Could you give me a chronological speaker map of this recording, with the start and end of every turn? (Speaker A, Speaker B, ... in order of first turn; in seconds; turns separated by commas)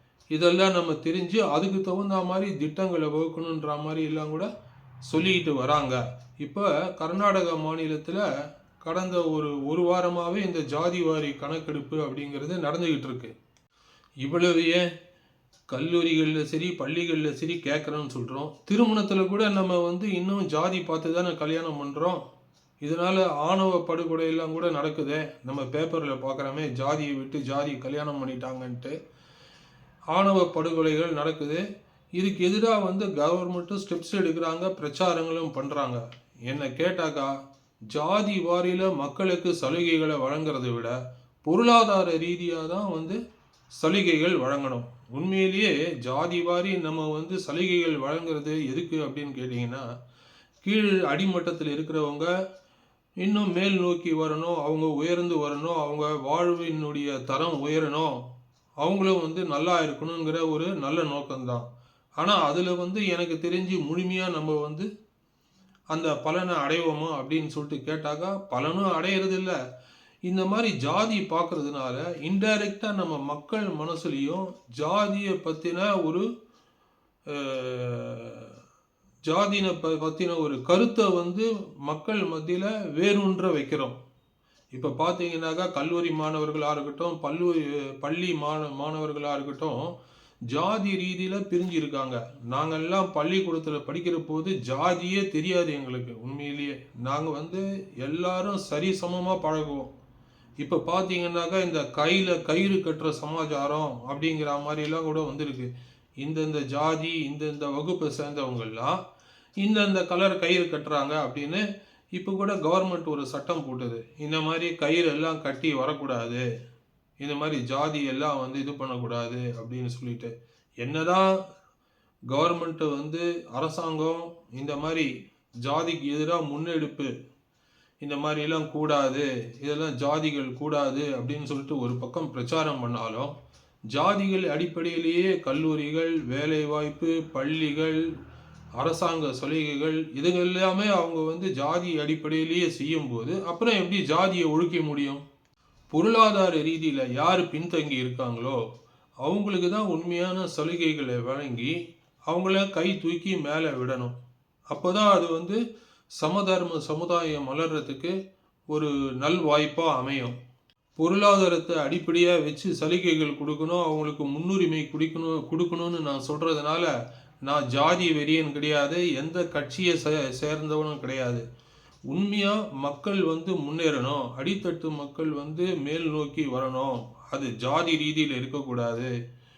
Speaker A: 0.3-4.5, Speaker A: 5.1-8.2, Speaker A: 8.8-13.3, Speaker A: 14.2-14.9, Speaker A: 15.7-22.2, Speaker A: 22.8-28.9, Speaker A: 30.1-31.6, Speaker A: 32.2-37.4, Speaker A: 37.9-43.2, Speaker A: 43.8-49.8, Speaker A: 50.6-52.3, Speaker A: 53.2-58.3, Speaker A: 58.8-61.7, Speaker A: 62.2-64.9, Speaker A: 65.9-69.6, Speaker A: 70.3-76.2, Speaker A: 77.3-78.5, Speaker A: 79.3-84.0, Speaker A: 84.7-89.9, Speaker A: 90.5-99.9, Speaker A: 100.6-105.7, Speaker A: 106.2-109.0, Speaker A: 109.6-116.5, Speaker A: 117.2-121.3, Speaker A: 122.3-125.1, Speaker A: 125.6-127.1, Speaker A: 128.0-133.3, Speaker A: 133.9-138.1, Speaker A: 138.8-145.2, Speaker A: 145.9-148.6, Speaker A: 149.2-151.8, Speaker A: 152.3-154.2, Speaker A: 154.7-155.6, Speaker A: 156.2-158.2, Speaker A: 158.7-160.4, Speaker A: 161.0-166.9, Speaker A: 167.4-171.4, Speaker A: 172.1-179.1